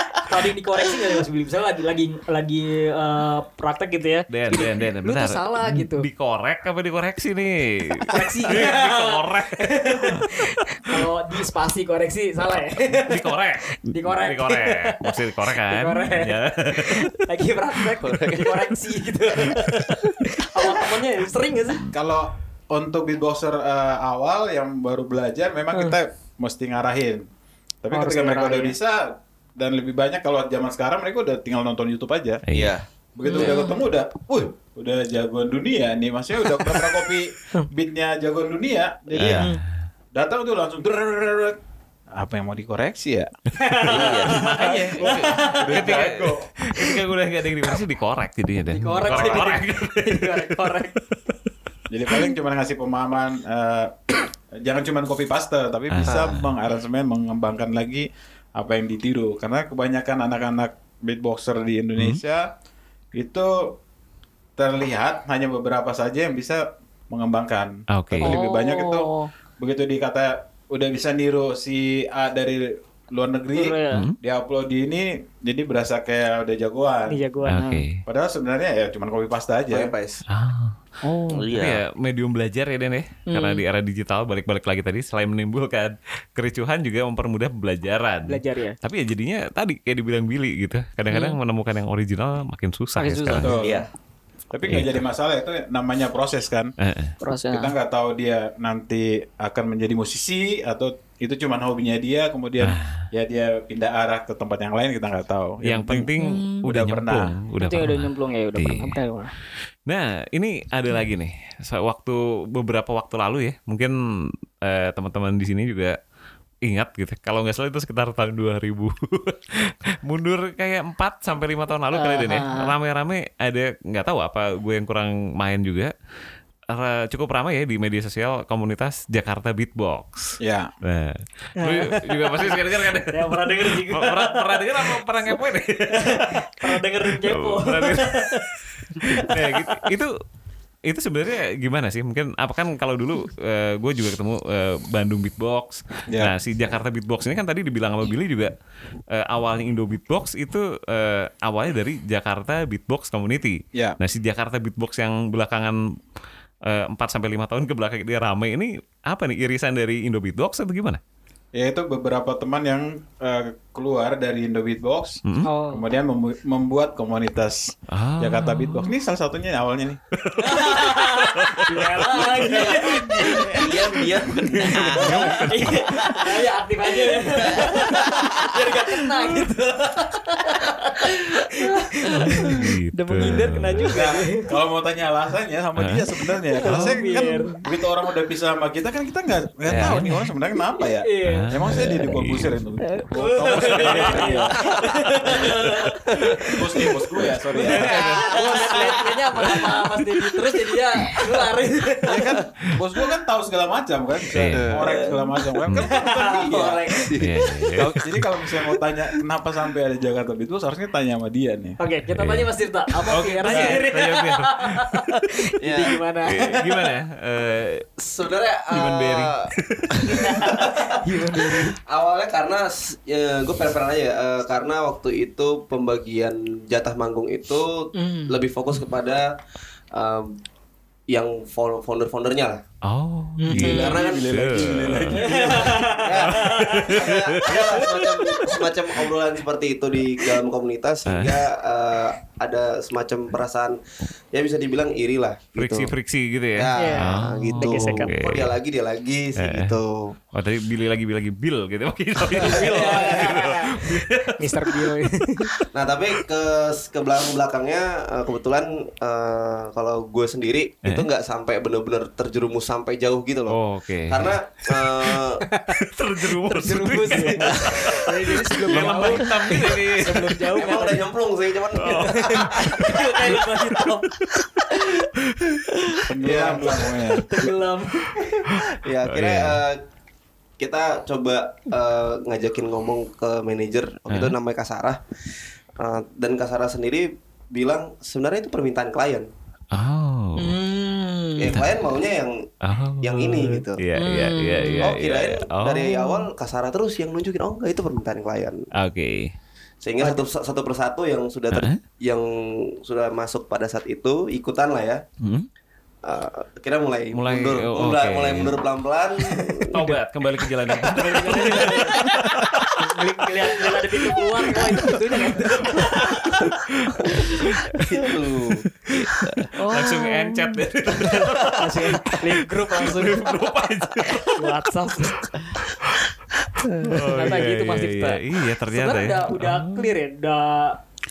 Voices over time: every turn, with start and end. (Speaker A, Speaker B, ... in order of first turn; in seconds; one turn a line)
Speaker A: 0.2-6.1
Speaker B: 4.3-10.4
Speaker A: 8.1-21.9
Speaker B: 13.1-17.1
Speaker C: 18.0-18.5
Speaker D: 21.9-27.3
Speaker D: 27.8-32.4
Speaker A: 27.9-28.8
Speaker B: 32.5-32.8
Speaker E: 32.5-32.9
Speaker D: 33.1-39.5
Speaker A: 33.2-33.8
Speaker E: 39.1-39.5
Speaker B: 39.2-39.6
Speaker D: 40.1-41.6
Speaker D: 42.1-46.5
Speaker A: 43.6-46.0
Speaker E: 43.9-44.5
Speaker B: 43.9-51.3
Speaker A: 48.7-51.0
Speaker D: 51.9-54.0
Speaker D: 54.5-62.5
Speaker B: 55.9-56.5
Speaker C: 56.1-56.4
Speaker D: 63.1-63.8
Speaker D: 64.6-69.1
Speaker B: 67.9-68.4
Speaker A: 68.2-69.3
Speaker D: 69.6-79.9
Speaker A: 73.5-74.0
Speaker B: 73.9-74.2
Speaker A: 77.1-77.8
Speaker B: 77.5-78.0
Speaker C: 79.7-80.2
Speaker B: 80.3-80.8
Speaker A: 81.0-81.5
Speaker E: 81.3-81.8
Speaker B: 81.5-93.6
Speaker A: 83.3-83.6
Speaker A: 88.2-88.8
Speaker A: 91.1-91.4
Speaker A: 93.0-93.5
Speaker D: 93.4-93.9
Speaker E: 93.4-93.9
Speaker D: 94.5-96.7
Speaker B: 94.7-95.0
Speaker B: 96.8-97.2
Speaker A: 97.2-97.8
Speaker D: 97.5-106.1
Speaker B: 102.6-103.1
Speaker B: 105.6-109.0
Speaker A: 106.2-106.6
Speaker D: 106.6-107.3
Speaker A: 107.6-109.3
Speaker B: 109.9-116.0
Speaker B: 116.7-125.9
Speaker A: 121.9-122.7
Speaker B: 126.7-140.2
Speaker D: 130.4-130.7
Speaker A: 131.6-135.0
Speaker A: 135.9-139.8
Speaker B: 140.9-148.5
Speaker D: 146.1-146.3
Speaker B: 149.1-156.0
Speaker D: 153.7-154.0
Speaker B: 156.7-161.0
Speaker D: 161.6-170.0
Speaker A: 165.4-165.8
Speaker B: 167.9-168.9
Speaker B: 170.2-172.9
Speaker A: 170.4-174.0
Speaker D: 172.3-173.8
Speaker E: 173.4-176.2
Speaker B: 174.3-176.3
Speaker A: 174.6-184.5
Speaker B: 182.2-184.0
Speaker D: 183.9-195.6
Speaker B: 185.8-186.1
Speaker A: 186.4-187.6
Speaker B: 186.6-187.1
Speaker B: 189.7-190.3
Speaker A: 189.8-190.1
Speaker A: 190.7-197.0
Speaker B: 191.2-192.6
Speaker B: 193.6-194.4
Speaker C: 194.7-195.4
Speaker D: 196.5-198.1
Speaker A: 197.5-202.4
Speaker B: 197.6-198.8
Speaker C: 197.9-199.8
Speaker D: 202.1-207.0
Speaker B: 204.3-204.8
Speaker C: 204.3-205.2
Speaker A: 205.8-207.1
Speaker C: 207.0-208.0
Speaker B: 207.2-208.2
Speaker D: 207.7-211.8
Speaker A: 211.8-216.9
Speaker B: 212.2-212.5
Speaker B: 213.1-215.3
Speaker D: 213.5-213.8
Speaker C: 215.6-216.0
Speaker B: 216.3-217.9
Speaker C: 218.0-229.3
Speaker B: 218.7-220.3
Speaker A: 220.0-221.8
Speaker A: 227.9-228.4
Speaker C: 229.9-230.4
Speaker C: 231.1-232.6
Speaker B: 232.8-238.6
Speaker A: 233.4-234.1
Speaker C: 233.5-243.8
Speaker D: 233.7-235.8
Speaker A: 235.2-236.9
Speaker B: 241.1-241.5
Speaker C: 244.3-245.9
Speaker B: 245.6-248.6
Speaker C: 246.6-250.2
Speaker A: 246.8-248.2
Speaker B: 249.4-249.8
Speaker B: 250.3-254.8
Speaker C: 252.3-253.5
Speaker A: 252.4-255.5
Speaker B: 255.4-255.7
Speaker C: 255.7-265.4
Speaker B: 263.5-265.2
Speaker A: 265.4-265.8
Speaker B: 265.8-270.5
Speaker A: 266.4-271.1
Speaker C: 267.5-267.9
Speaker C: 270.5-273.4
Speaker B: 271.8-273.4
Speaker A: 271.8-274.1
Speaker D: 276.1-277.3
Speaker A: 276.2-278.2
Speaker C: 276.2-276.8
Speaker C: 278.2-279.8
Speaker B: 278.5-279.6
Speaker C: 280.6-285.0
Speaker B: 284.1-284.4
Speaker C: 285.8-289.3
Speaker B: 289.7-290.6
Speaker A: 290.4-291.6
Speaker C: 291.4-293.8
Speaker B: 291.5-291.9
Speaker B: 292.6-295.9
Speaker A: 294.0-294.9
Speaker C: 294.8-298.7
Speaker A: 295.8-296.3
Speaker B: 298.8-299.3
Speaker C: 299.8-305.0
Speaker B: 301.5-301.8
Speaker B: 305.2-305.5
Speaker C: 306.0-309.8
Speaker B: 307.1-308.6
Speaker A: 309.6-312.2
Speaker B: 309.7-312.8
Speaker C: 311.0-312.2
Speaker A: 312.8-316.4
Speaker B: 313.5-317.8
Speaker A: 317.1-317.4
Speaker C: 317.8-319.5
Speaker B: 318.9-324.5
Speaker A: 319.5-323.6
Speaker A: 324.1-325.4
Speaker B: 325.4-326.0
Speaker A: 326.6-330.8
Speaker B: 326.8-329.9